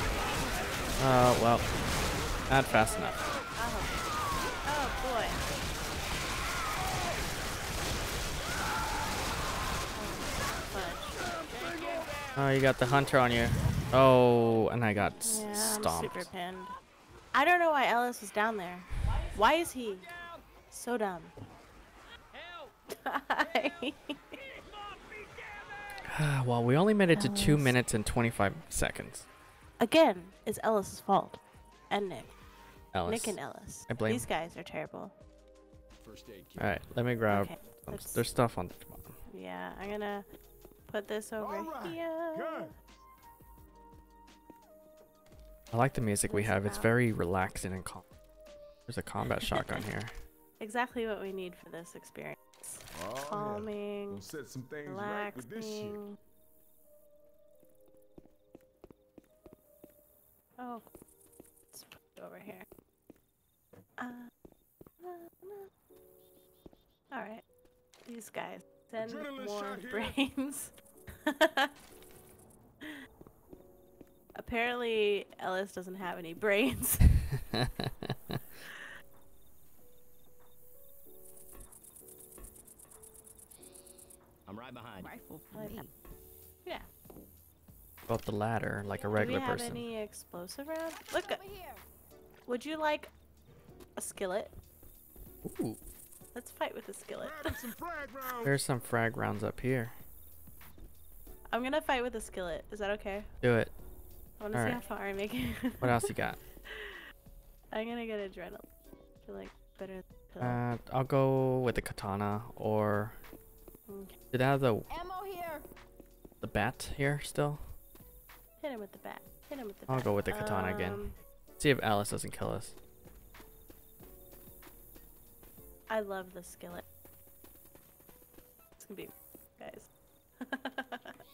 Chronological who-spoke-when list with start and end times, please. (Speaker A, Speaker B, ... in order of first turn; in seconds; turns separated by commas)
Speaker A: 1.0-1.6, Speaker A: 2.5-3.2, Speaker B: 2.7-4.0, Speaker B: 4.7-5.4, Speaker B: 9.9-11.2, Speaker C: 11.2-12.1, Speaker D: 11.5-12.3, Speaker A: 12.3-16.3, Speaker B: 15.2-16.8, Speaker B: 17.3-20.1, Speaker B: 20.7-21.3, Speaker D: 22.4-22.7, Speaker B: 22.9-24.4, Speaker A: 26.1-29.2, Speaker B: 27.1-27.7, Speaker B: 29.8-32.3, Speaker A: 32.9-34.2, Speaker B: 33.0-35.1, Speaker D: 36.0-36.8, Speaker A: 36.6-39.2, Speaker B: 37.3-38.2, Speaker B: 39.3-40.2, Speaker B: 40.9-42.7, Speaker C: 41.4-42.8, Speaker A: 45.7-48.0, Speaker B: 46.3-46.9, Speaker A: 48.9-50.1, Speaker B: 50.6-54.2, Speaker C: 52.9-56.0, Speaker B: 54.8-56.1, Speaker B: 60.6-60.8, Speaker B: 61.7-62.6, Speaker B: 64.0-64.3, Speaker B: 65.0-65.7, Speaker B: 67.1-67.4, Speaker B: 68.0-71.7, Speaker C: 69.0-70.2, Speaker B: 74.3-77.1, Speaker A: 77.3-78.4, Speaker D: 84.5-85.1, Speaker E: 85.0-85.9, Speaker B: 85.5-85.9, Speaker A: 88.1-89.8, Speaker B: 89.1-91.4, Speaker E: 91.1-91.8, Speaker B: 92.5-93.1, Speaker B: 94.0-94.5, Speaker A: 95.4-95.8, Speaker B: 96.3-97.6, Speaker C: 97.2-98.6, Speaker A: 98.4-99.9, Speaker B: 101.5-103.3, Speaker A: 103.4-103.7, Speaker B: 104.4-106.1, Speaker A: 104.5-104.8, Speaker A: 105.8-106.4, Speaker B: 106.7-107.0, Speaker B: 107.7-108.6, Speaker B: 109.2-110.6, Speaker A: 110.4-113.2, Speaker B: 113.9-114.1, Speaker A: 114.3-114.9, Speaker E: 114.9-115.7, Speaker A: 116.4-117.6, Speaker B: 118.6-121.1, Speaker A: 119.9-121.0, Speaker A: 121.6-122.7, Speaker B: 125.9-126.8, Speaker B: 128.8-129.9, Speaker B: 130.4-131.1